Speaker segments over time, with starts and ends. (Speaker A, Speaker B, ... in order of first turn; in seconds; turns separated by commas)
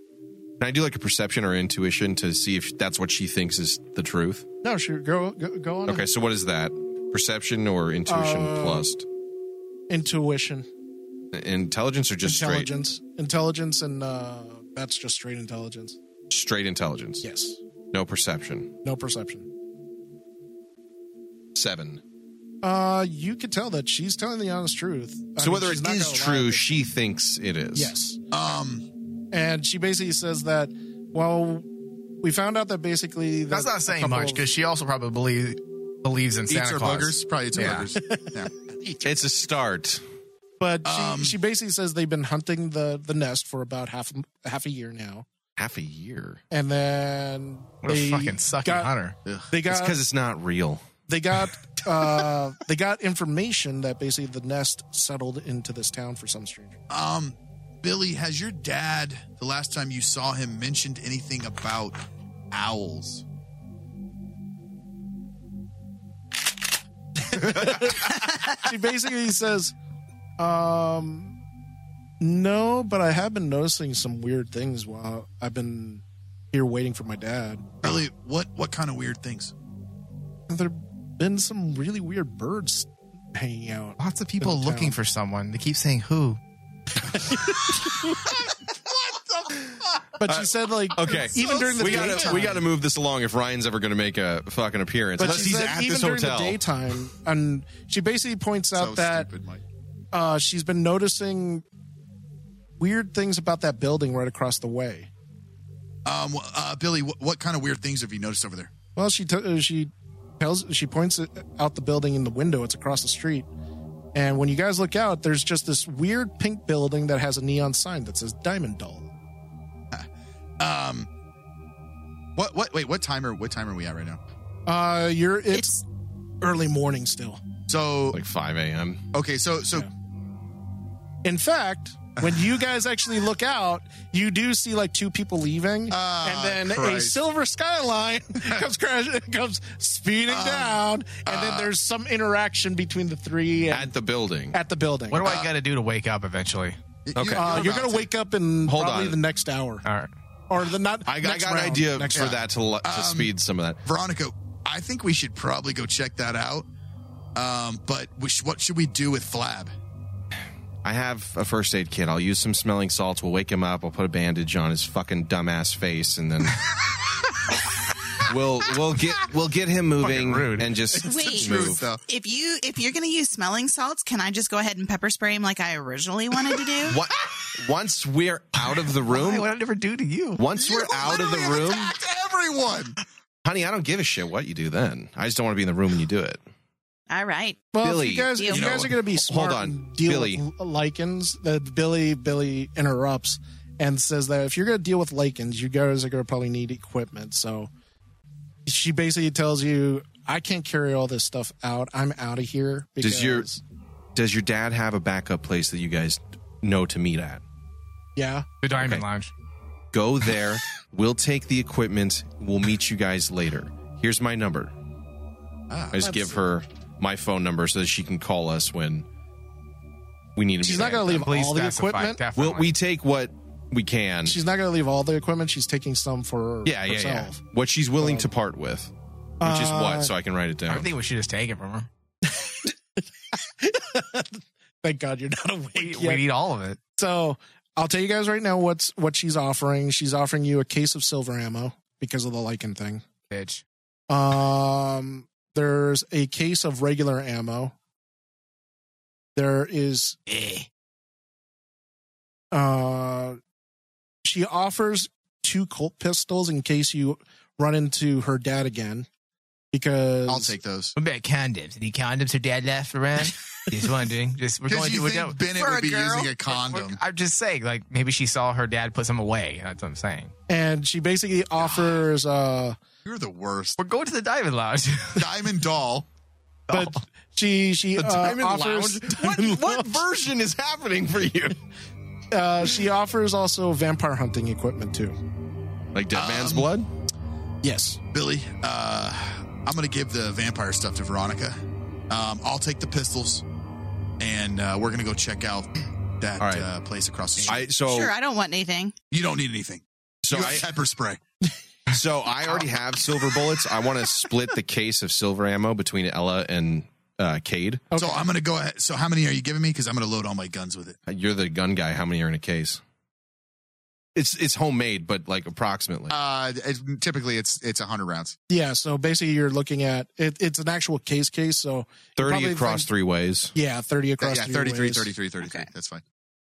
Speaker A: 0.6-4.5, Speaker B: 4.6-6.0, Speaker A: 5.8-9.0, Speaker B: 8.1-8.9, Speaker B: 9.9-10.7, Speaker A: 11.3-12.7, Speaker B: 12.2-16.0, Speaker A: 16.3-17.2, Speaker B: 17.2-17.6, Speaker A: 17.9-18.7, Speaker B: 18.8-19.5, Speaker A: 21.5-22.0, Speaker B: 22.6-26.8, Speaker A: 25.4-27.9, Speaker B: 27.7-28.2, Speaker C: 28.3-28.9, Speaker B: 29.3-31.7, Speaker B: 32.2-34.4, Speaker D: 33.5-37.8, Speaker C: 36.5-38.5, Speaker B: 38.1-39.2, Speaker A: 39.0-40.0, Speaker B: 40.6-45.2, Speaker C: 40.8-41.4, Speaker A: 45.6-46.4, Speaker B: 46.5-48.9, Speaker D: 47.8-49.1, Speaker B: 49.5-50.0, Speaker A: 49.6-50.8, Speaker B: 51.1-56.8, Speaker C: 56.9-62.0, Speaker C: 62.5-63.2, Speaker B: 67.3-69.7, Speaker B: 70.4-71.4, Speaker B: 72.2-77.7, Speaker C: 77.8-79.5, Speaker B: 80.5-84.9, Speaker D: 84.1-86.4, Speaker E: 85.7-86.3, Speaker B: 90.2-92.6, Speaker A: 90.2-96.6, Speaker B: 95.2-99.3, Speaker C: 98.7-99.6, Speaker B: 100.1-101.6, Speaker B: 102.8-105.1, Speaker C: 106.0-108.7, Speaker B: 109.0-113.5, Speaker B: 114.1-119.1, Speaker C: 120.6-121.1, Speaker C: 122.3-124.2, Speaker B: 124.7-125.8, Speaker F: 125.5-125.8, Speaker B: 126.4-127.4, Speaker C: 127.7-128.2, Speaker A: 128.1-129.0, Speaker C: 129.1-129.9, Speaker B: 131.2-144.0, Speaker C: 135.9-137.2, Speaker C: 140.3-141.7, Speaker A: 143.7-144.6, Speaker B: 144.5-145.2, Speaker D: 145.1-146.8, Speaker C: 145.2-145.5, Speaker C: 147.1-148.1, Speaker A: 147.1-147.7, Speaker B: 147.3-149.8, Speaker A: 148.6-149.2, Speaker D: 149.8-150.1, Speaker B: 150.5-152.3, Speaker A: 151.1-153.8, Speaker C: 152.1-153.3, Speaker C: 153.8-156.7, Speaker C: 157.3-159.7, Speaker A: 160.8-166.7, Speaker A: 168.2-171.9, Speaker D: 170.0-170.8, Speaker C: 171.0-172.0, Speaker F: 171.0-177.0, Speaker A: 176.8-179.5, Speaker D: 179.2-180.4, Speaker A: 180.3-181.9, Speaker C: 180.6-183.0, Speaker A: 183.4-186.4, Speaker F: 187.1-187.7, Speaker B: 187.7-197.7, Speaker A: 187.8-190.4, Speaker F: 188.3-188.6, Speaker C: 188.5-188.9, Speaker B: 198.7-203.6, Speaker A: 203.0-203.5, Speaker A: 204.1-207.4, Speaker B: 208.2-208.5, Speaker D: 208.6-209.3, Speaker A: 208.8-209.0, Speaker A: 209.9-214.7, Speaker C: 215.7-216.0, Speaker A: 215.9-219.1, Speaker B: 216.0-216.3, Speaker A: 220.3-221.3, Speaker B: 220.6-222.2, Speaker D: 221.2-222.7, Speaker A: 222.3-224.4, Speaker B: 224.2-227.4, Speaker A: 226.6-228.9, Speaker B: 228.0-228.3, Speaker B: 229.4-230.1, Speaker A: 229.4-230.9, Speaker D: 230.7-231.9, Speaker B: 232.3-236.2, Speaker D: 235.8-236.8, Speaker B: 237.0-243.0, Speaker D: 243.3-243.6, Speaker B: 244.1-247.7, Speaker B: 249.3-250.2, Speaker E: 250.3-250.6, Speaker B: 252.5-253.4, Speaker B: 254.2-259.1, Speaker B: 259.7-260.5, Speaker C: 260.3-260.9, Speaker E: 261.0-263.7, Speaker D: 261.8-262.4, Speaker D: 263.2-265.3, Speaker C: 264.6-267.0, Speaker E: 265.6-266.3, Speaker D: 266.6-270.3, Speaker B: 270.5-272.8, Speaker C: 271.6-272.0, Speaker C: 273.0-273.8, Speaker D: 273.8-275.2, Speaker C: 275.1-276.1, Speaker B: 276.7-280.0, Speaker A: 277.9-281.6, Speaker B: 282.3-285.2, Speaker A: 285.9-286.9, Speaker C: 286.1-286.7, Speaker B: 287.6-288.0, Speaker C: 288.1-293.4, Speaker C: 294.2-295.7, Speaker C: 296.2-297.7, Speaker A: 296.4-296.7, Speaker A: 297.4-298.1, Speaker F: 297.8-298.9, Speaker C: 299.1-301.2, Speaker A: 300.2-300.7, Speaker A: 301.9-307.8, Speaker B: 307.9-308.3, Speaker C: 308.0-311.0, Speaker A: 311.1-312.8, Speaker A: 314.1-316.1, Speaker C: 316.1-318.4, Speaker B: 318.5-322.9, Speaker A: 322.2-323.5, Speaker B: 323.5-325.1, Speaker C: 324.2-326.0, Speaker F: 325.4-325.7